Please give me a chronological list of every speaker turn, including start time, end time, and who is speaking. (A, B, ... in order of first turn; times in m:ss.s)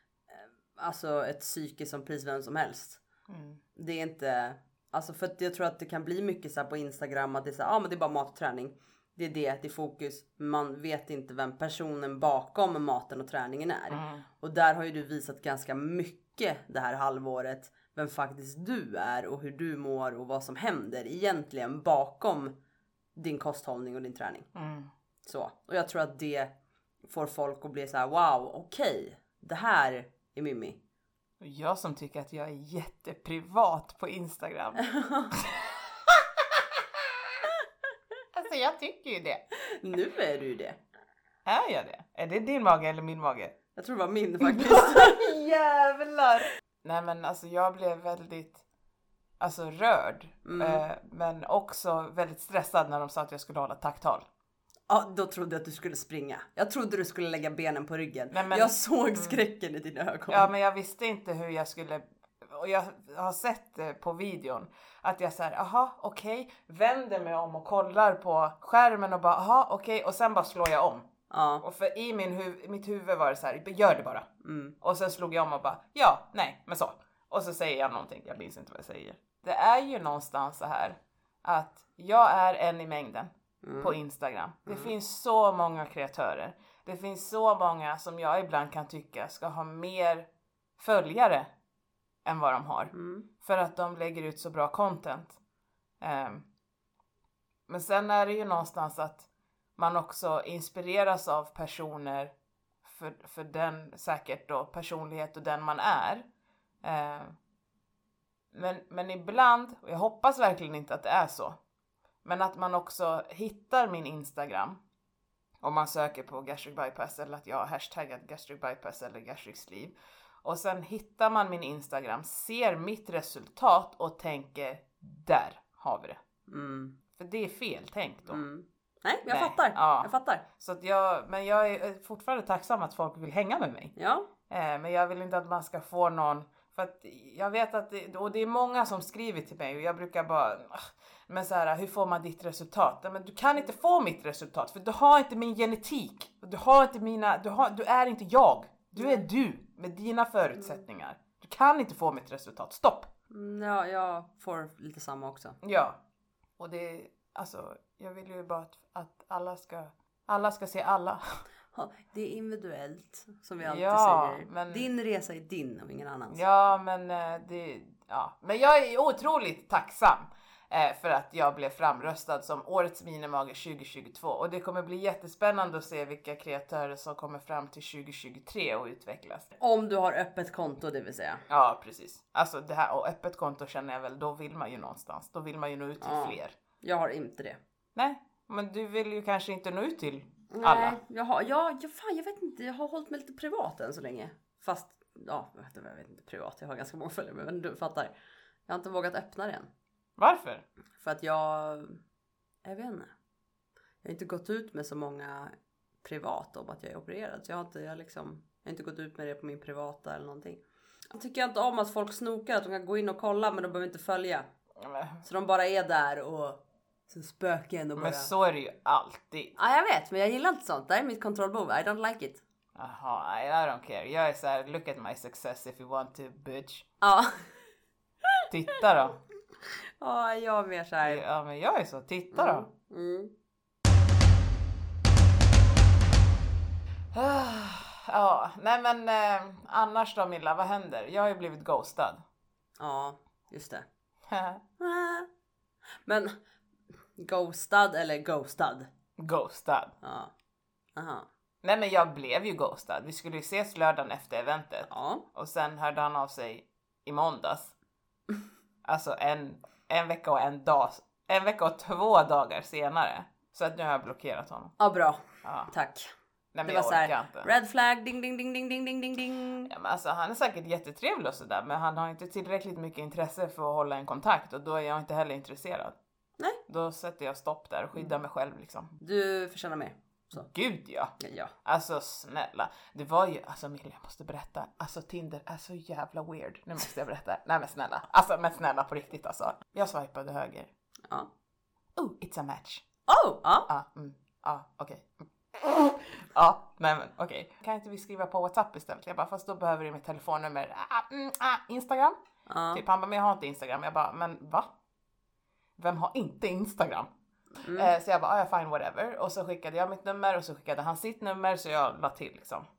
0:00.3-0:03.0 A
0:03.3-0:03.6 B
0:03.8-0:22.6 A
0:13.9-0:14.2 B
0:23.2-0:24.5 A
0:24.5-0:24.9 B
0:25.2-0:26.5 A
0:27.1-0:30.8 A
0:31.4-0:35.4 B
0:34.8-0:35.3 A
0:36.1-0:36.6 B
0:38.3-0:39.4 B
0:39.6-0:40.8 A
0:41.4-0:43.6 B
0:43.8-0:45.3 A
0:44.4-0:48.6 B
0:49.4-0:54.2 B
0:50.4-0:50.8 A
0:54.9-1:00.5 A
0:58.3-0:59.4 B
1:00.3-1:11.1 B
1:11.3-1:11.6 A
1:11.6-1:14.3 B
1:14.4-1:14.8 A
1:14.8-1:31.5 B
1:23.6-1:24.0 A
1:32.2-1:35.4 B
1:32.9-1:33.3 A
1:36.0-1:36.4 B
1:37.7-1:42.3 B
1:42.8-1:46.3 B
1:46.8-1:47.4 B
1:48.5-1:51.6 B
1:52.2-1:54.8 B
1:55.6-2:06.2 B
2:06.5-2:07.0 A
2:07.2-2:08.4 B
2:08.3-2:10.4 A
2:09.3-2:13.9 B
2:14.0-2:14.3 A
2:14.5-2:33.1 B
2:33.3-2:35.6 A
2:35.6-2:36.0 B
2:36.6-2:41.2 B
2:41.7-2:46.4 A
2:43.6-2:44.9 B
2:46.3-2:59.5 B
2:59.6-3:01.4 A
3:01.5-3:06.6 B
3:06.0-3:07.6 A
3:07.9-3:11.0 B
3:10.5-3:18.1 A
3:18.7-3:19.7 A
3:20.2-3:20.6 B
3:21.0-3:22.0 A
3:22.6-3:23.1 A
3:24.0-3:30.6 A
3:31.1-3:34.5 A
3:34.8-3:35.2 B
3:35.2-3:38.3 A
3:38.0-3:39.5 B
3:39.6-3:42.4 A
3:42.8-3:46.9 B
3:47.0-3:47.5 A
3:48.5-3:49.2 B
3:50.0-3:51.2 A
3:51.0-3:52.7 B
3:52.3-3:53.3 A
3:57.1-4:02.2 B
4:02.8-4:03.8 A
4:04.3-4:04.6 B
4:04.8-4:05.3 A
4:06.0-4:06.4 A
4:07.2-4:08.9 A
4:09.2-4:09.9 B
4:10.0-4:10.3 A
4:11.0-4:11.3 A
4:11.6-4:17.7 B
4:14.9-4:15.2 A
4:18.8-4:24.7 B
4:24.8-4:26.1 A
4:25.4-4:25.7 B
4:26.5-4:27.5 B
4:26.6-4:29.7 A
4:29.7-4:36.0 B
4:36.7-4:38.9 B
4:39.0-4:40.5 A
4:40.3-4:41.1 B
4:41.2-4:41.5 A
4:41.6-4:50.7 B
4:52.0-4:52.8 B
4:53.1-4:53.7 A
4:53.7-5:02.2 B
5:02.5-5:02.8 A
5:02.7-5:04.7 B
5:05.8-5:07.1 B
5:07.6-5:07.9 A
5:07.7-5:12.7 B